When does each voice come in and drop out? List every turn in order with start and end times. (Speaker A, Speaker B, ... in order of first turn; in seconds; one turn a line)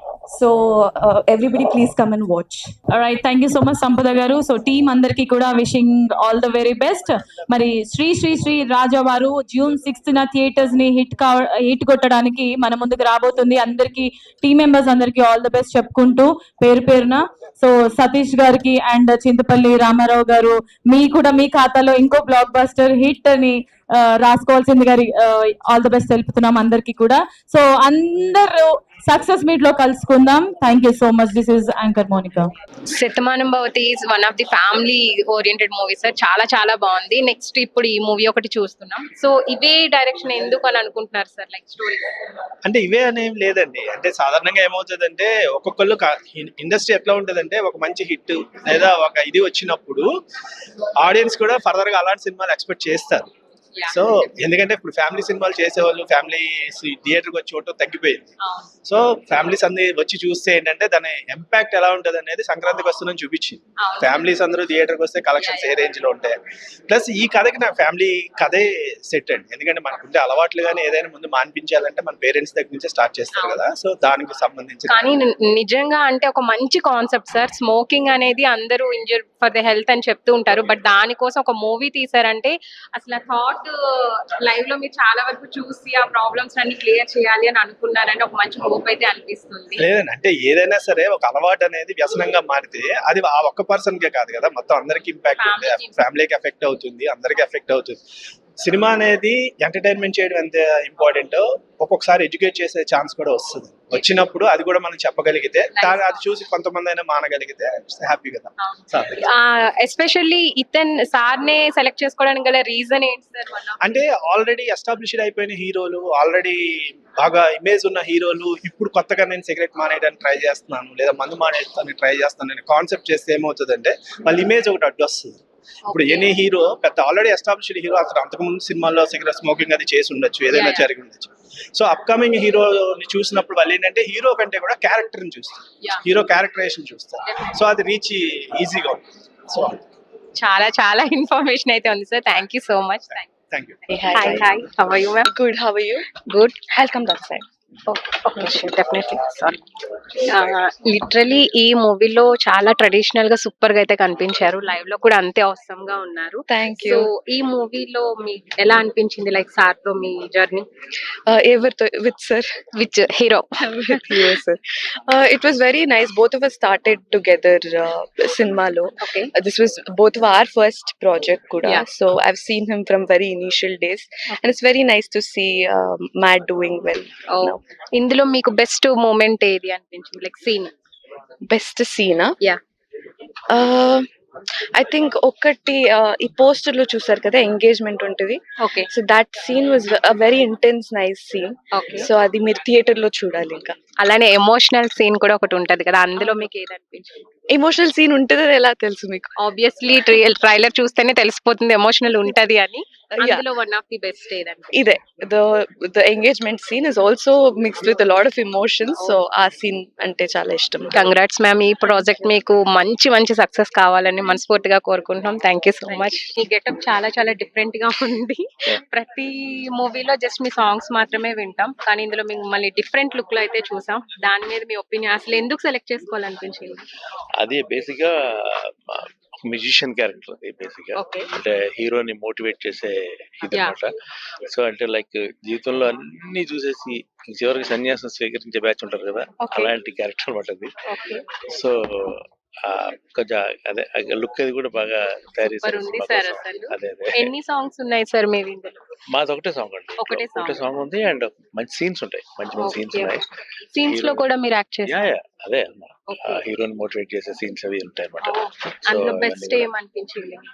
Speaker A: 0.3-2.7
Speaker B: 2.9-32.5
Speaker C: 32.9-42.1
Speaker D: 42.6-50.1
Speaker D: 51.0-53.3
Speaker C: 53.8-54.3
Speaker D: 53.9-58.3
Speaker C: 58.4-58.7
Speaker D: 58.9-75.1
Speaker C: 63.8-64.3
Speaker C: 65.3-65.8
Speaker C: 73.3-73.6
Speaker C: 74.9-83.7
Speaker C: 84.4-89.8
Speaker D: 89.8-98.0
Speaker C: 95.4-96.0
Speaker D: 98.6-109.3
Speaker C: 105.7-106.3
Speaker C: 108.6-113.8
Speaker D: 113.8-139.8
Speaker C: 125.9-126.4
Speaker C: 130.5-130.9
Speaker C: 140.4-143.3
Speaker D: 143.5-143.8
Speaker A: 143.9-144.5
Speaker C: 144.1-145.3
Speaker A: 145.3-146.1
Speaker C: 146.3-146.6
Speaker A: 146.7-147.5
Speaker C: 147.9-149.7
Speaker C: 150.2-160.7
Speaker A: 156.5-157.1
Speaker A: 161.3-162.6
Speaker C: 162.8-164.4
Speaker A: 163.9-177.6
Speaker C: 169.0-169.3
Speaker C: 177.3-180.7
Speaker A: 181.5-182.3
Speaker A: 183.5-184.1
Speaker A: 184.8-193.8
Speaker C: 188.6-188.9
Speaker C: 191.8-192.1
Speaker C: 194.0-197.2
Speaker A: 196.2-196.5
Speaker A: 197.5-199.3
Speaker C: 199.4-204.7
Speaker A: 203.2-203.4
Speaker A: 204.7-211.2
Speaker C: 210.9-226.8
Speaker A: 211.8-212.3
Speaker E: 227.4-233.9
Speaker C: 231.0-231.3
Speaker C: 233.5-233.8
Speaker E: 234.5-240.7
Speaker C: 239.4-239.7
Speaker C: 240.9-241.2
Speaker E: 241.5-247.3
Speaker C: 245.4-248.8
Speaker E: 249.1-253.3
Speaker C: 250.0-250.7
Speaker C: 252.6-253.1
Speaker C: 253.7-255.1
Speaker E: 253.8-254.3
Speaker E: 254.9-259.7
Speaker C: 256.1-256.4
Speaker C: 258.2-260.4